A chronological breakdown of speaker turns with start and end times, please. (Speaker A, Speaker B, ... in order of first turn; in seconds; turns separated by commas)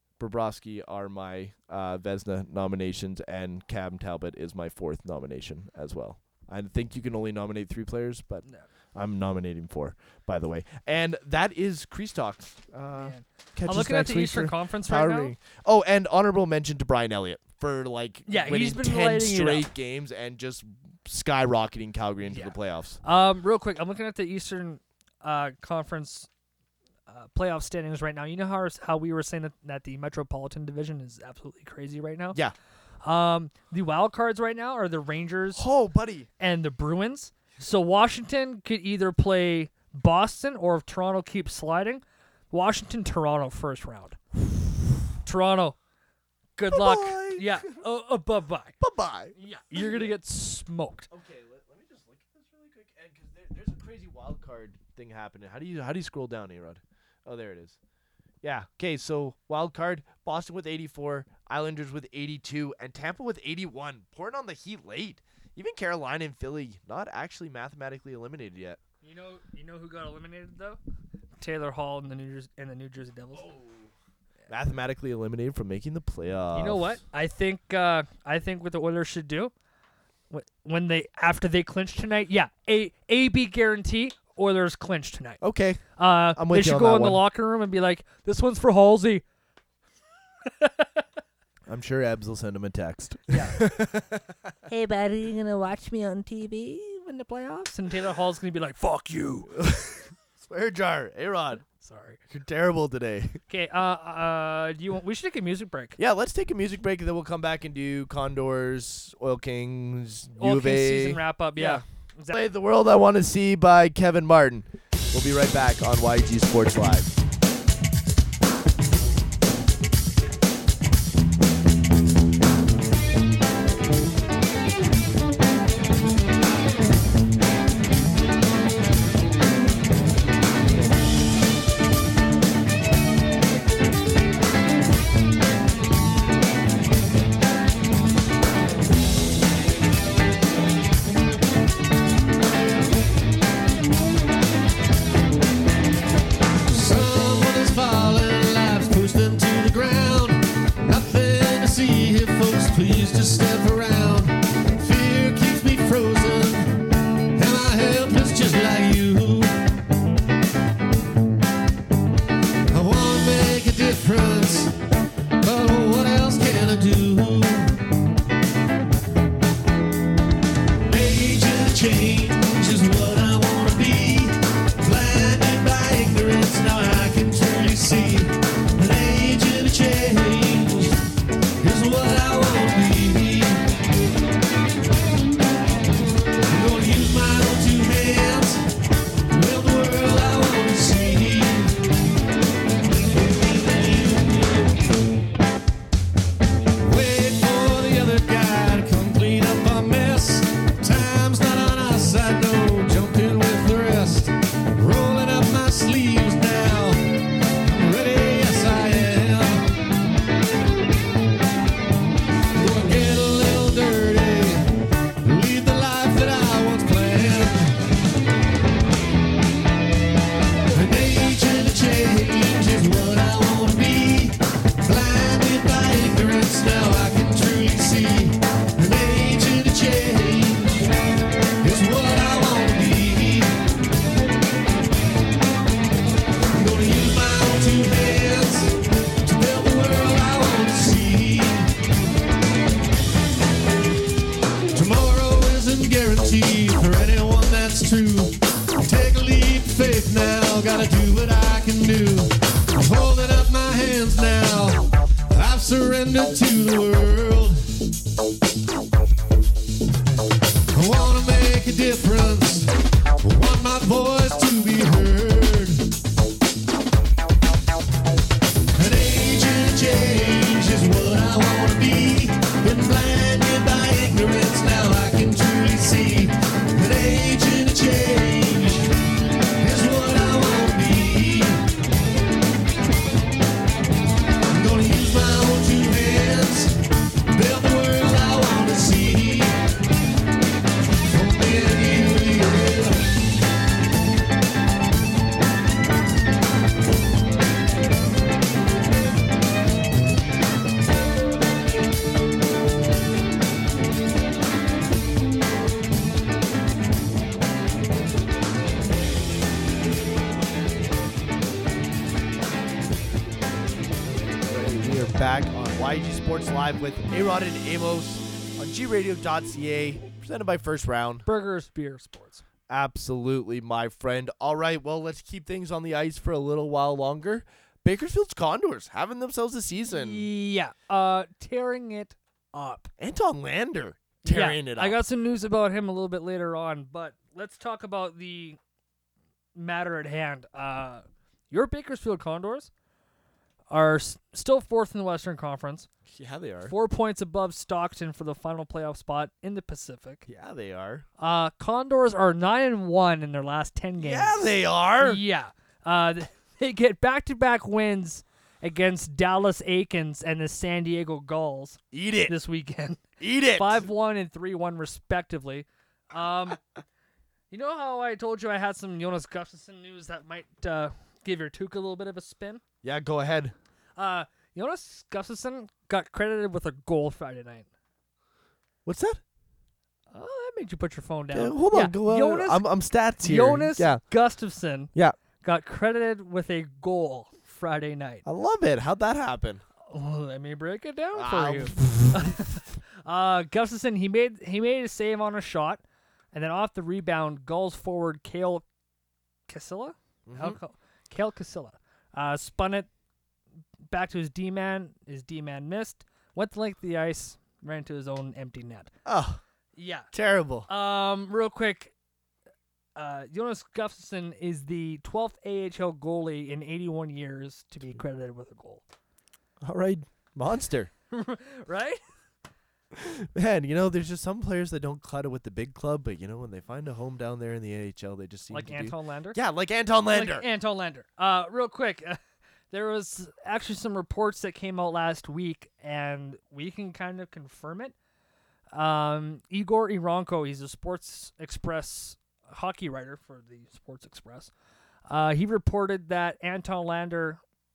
Speaker A: 0.2-23.0, Speaker B: 12.9-15.3, Speaker B: 18.3-19.7, Speaker B: 22.2-26.3, Speaker B: 27.1-32.4, Speaker B: 33.0-35.7, Speaker A: 35.5-36.3, Speaker B: 36.4-44.2, Speaker B: 45.2-45.8, Speaker B: 46.6-48.8, Speaker A: 46.7-47.7, Speaker A: 48.8-50.1, Speaker B: 49.4-51.1, Speaker A: 51.1-57.8, Speaker A: 58.4-68.8, Speaker B: 69.0-70.8, Speaker B: 71.4-73.5, Speaker A: 73.3-73.9, Speaker A: 74.5-77.0, Speaker B: 76.5-79.5, Speaker B: 80.3-85.4, Speaker A: 85.4-87.2, Speaker B: 86.0-89.2, Speaker B: 90.5-91.0, Speaker A: 91.7-94.5, Speaker B: 93.3-93.7, Speaker B: 94.7-99.5, Speaker A: 99.5-101.7, Speaker B: 101.7-102.2, Speaker A: 102.3-103.4, Speaker B: 103.5-106.0, Speaker A: 106.0-117.1, Speaker B: 110.4-112.4, Speaker C: 146.7-156.8, Speaker C: 157.3-159.6, Speaker C: 162.7-164.7, Speaker C: 165.4-167.8, Speaker C: 170.9-181.0, Speaker C: 181.6-183.7, Speaker C: 186.5-188.6, Speaker C: 189.3-191.8, Speaker C: 193.2-194.7, Speaker C: 196.8-207.1, Speaker C: 207.6-209.7, Speaker C: 212.6-217.8, Speaker C: 220.7-230.8, Speaker C: 231.6-233.6, Speaker C: 236.5-241.7, Speaker C: 244.7-257.6, Speaker C: 260.7-262.7, Speaker C: 263.2-265.9, Speaker C: 268.8-278.9, Speaker C: 279.6-281.6, Speaker C: 284.5-286.8, Speaker C: 287.3-289.6, Speaker C: 291.1-293.1, Speaker A: 314.5-321.3, Speaker B: 321.2-322.4, Speaker A: 322.7-330.3, Speaker B: 329.9-332.9, Speaker A: 333.0-335.0, Speaker B: 334.2-338.6, Speaker B: 339.6-342.7, Speaker B: 343.7-345.9, Speaker A: 346.1-346.8, Speaker B: 346.6-350.2, Speaker A: 350.3-351.1, Speaker B: 351.2-366.6, Speaker A: 354.0-355.2, Speaker A: 361.9-362.3, Speaker A: 363.2-363.9, Speaker B: 367.5-372.6, Speaker A: 372.8-373.5, Speaker B: 374.0-377.7, Speaker A: 378.9-379.2, Speaker B: 380.1-382.7, Speaker A: 381.3-384.0, Speaker B: 383.2-388.2, Speaker A: 388.2-389.6, Speaker B: 389.9-395.8, Speaker A: 391.1-392.6, Speaker B: 396.3-398.6, Speaker B: 399.5-402.9, Speaker A: 400.3-400.6, Speaker B: 403.9-408.9, Speaker A: 409.1-409.4, Speaker B: 409.8-410.1, Speaker A: 410.1-410.7, Speaker B: 410.7-411.9, Speaker B: 413.0-418.8, Speaker A: 419.6-420.9, Speaker B: 421.1-422.0, Speaker A: 422.9-430.5, Speaker B: 428.5-429.4, Speaker B: 430.1-432.2, Speaker B: 432.7-437.9, Speaker B: 438.7-444.5, Speaker B: 445.1-447.4